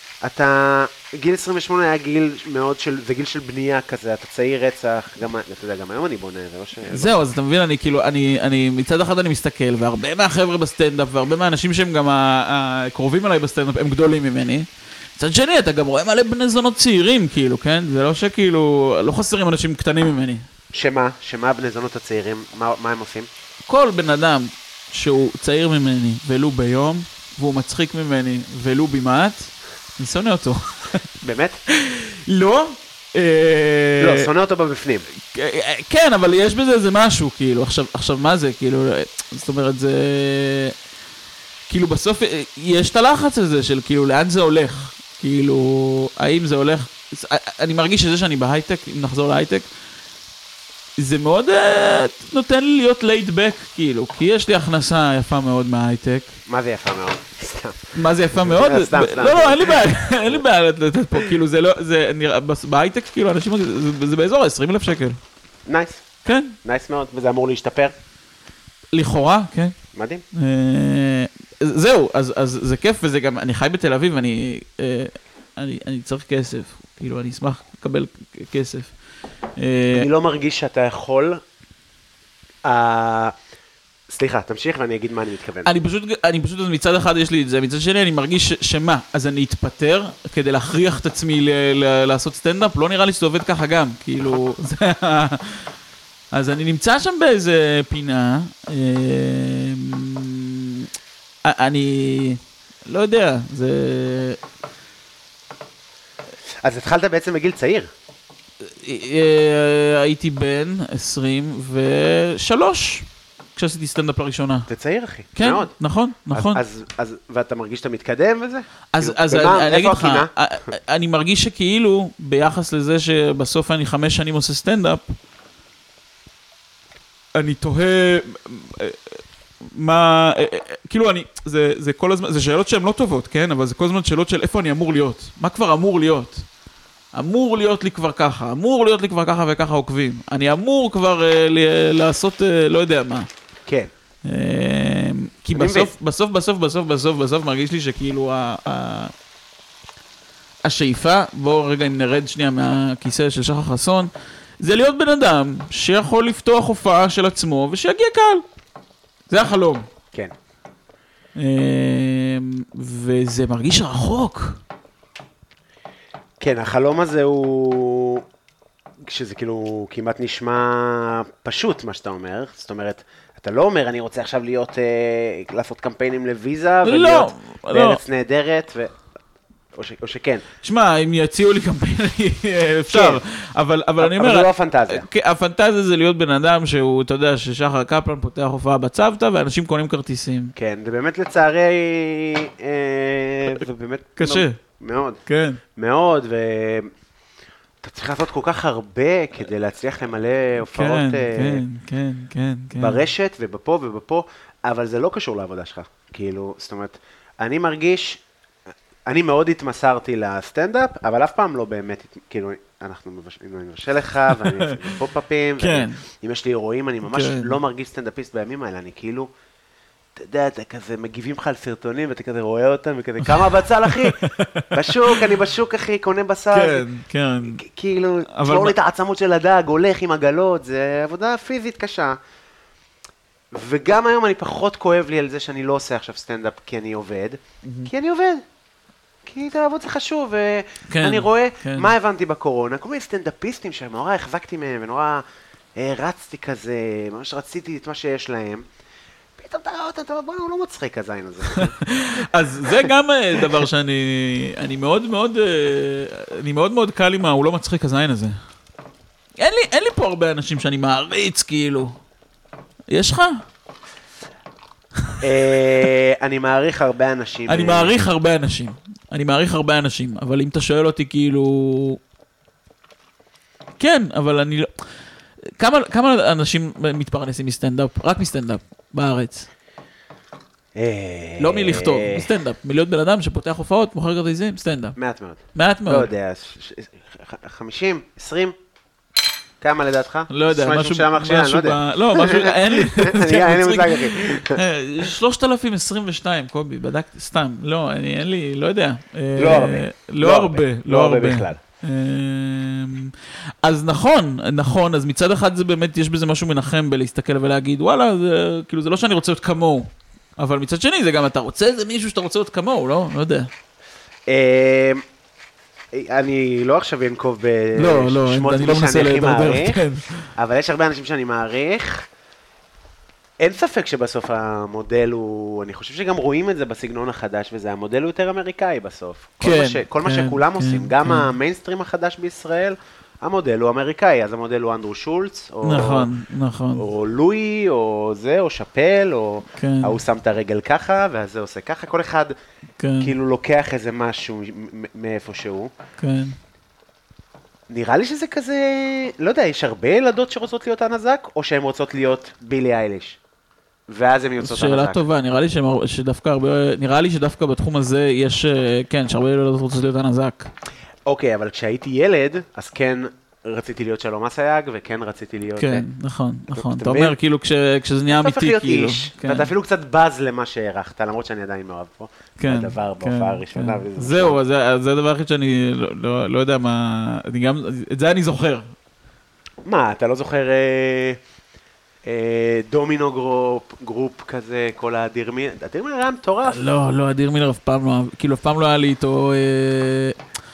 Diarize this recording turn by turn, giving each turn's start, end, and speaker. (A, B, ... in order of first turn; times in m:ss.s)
0:00.2-0:07.1 A
0:06.9-0:20.4 B
0:20.7-0:23.3 A
0:23.7-0:31.0 B
0:31.2-0:31.6 A
0:31.7-0:34.3 B
0:34.0-0:35.1 A
0:35.2-0:40.8 B
0:41.7-0:49.7 B
0:51.0-0:56.4 B
0:56.5-1:00.4 A
0:57.9-1:05.2 B
1:05.7-1:06.0 A
1:06.2-1:06.6 B
1:06.6-1:07.9 A
1:08.9-1:09.8 B
1:09.9-1:10.2 A
1:10.3-1:18.9 B
1:19.6-1:20.1 B
1:19.9-1:21.4 A
1:22.6-1:23.4 A
1:24.1-1:25.7 A
1:25.6-1:35.7 B
1:36.3-1:40.9 B
1:41.4-1:44.4 B
1:46.6-1:47.9 A
1:48.6-1:54.7 B
1:54.7-1:55.7 A
1:55.4-1:56.6 B
1:56.3-2:00.3 A
1:58.9-2:05.2 B
2:07.4-2:16.5 B
2:17.1-2:23.3 B
2:23.7-2:23.9 A
2:24.2-2:29.1 B
2:25.5-2:25.9 A
2:30.6-2:38.4 B
2:39.3-2:39.9 B
2:41.4-2:44.6 B
2:46.4-2:48.2 A
2:49.0-2:59.0 A
2:56.8-2:58.0 B
2:59.7-3:00.4 A
3:00.6-3:10.5 B
3:02.9-3:03.2 A
3:04.0-3:05.1 A
3:10.6-3:15.2 A
3:14.2-3:14.6 B
3:15.3-3:15.6 B
3:15.8-3:16.9 A
3:17.8-3:21.6 A
3:20.6-3:23.0 B
3:22.8-3:28.2 A
3:29.1-3:39.3 A
3:34.4-3:34.9 B
3:35.6-3:36.0 B
3:37.0-3:37.6 B
3:40.2-3:46.9 A
3:43.3-3:45.3 B
3:46.5-3:47.6 B
3:47.4-3:52.2 A
3:48.3-3:48.8 B
3:53.5-3:58.4 A
3:57.6-3:57.9 B
3:59.2-4:05.2 A
4:00.9-4:01.9 B
4:05.8-4:08.7 A
4:09.4-4:11.8 A
4:11.5-4:18.4 B
4:12.6-4:13.6 A
4:19.4-4:22.0 B
4:22.9-4:23.4 B
4:25.2-4:28.1 A
4:27.5-4:32.0 B
4:33.8-4:34.7 B
4:35.6-4:39.5 B
4:40.8-4:42.3 A
4:41.4-4:45.0 B
4:45.0-4:48.6 A
4:45.5-4:46.1 B
4:49.6-4:54.6 A
4:50.3-5:13.5 B
4:59.4-5:01.6 A
5:14.3-5:15.0 A
5:15.9-5:19.8 A
5:17.8-5:20.3 B
5:20.4-5:22.1 A
5:23.4-5:36.1 A
5:29.4-5:31.3 B
5:35.6-5:36.8 B
5:36.7-5:42.4 A
5:39.5-5:40.0 B
5:42.8-5:43.1 B
5:43.0-5:45.7 A
5:46.0-5:46.4 B
5:47.7-5:53.2 A
5:53.9-5:55.0 A
5:54.4-6:00.5 B
6:01.1-6:05.9 A
6:05.6-6:09.5 B
6:06.5-6:07.2 A
6:08.1-6:14.4 A
6:12.4-6:18.7 B
6:19.6-6:21.2 A
6:22.0-6:26.7 A
6:26.5-6:30.2 B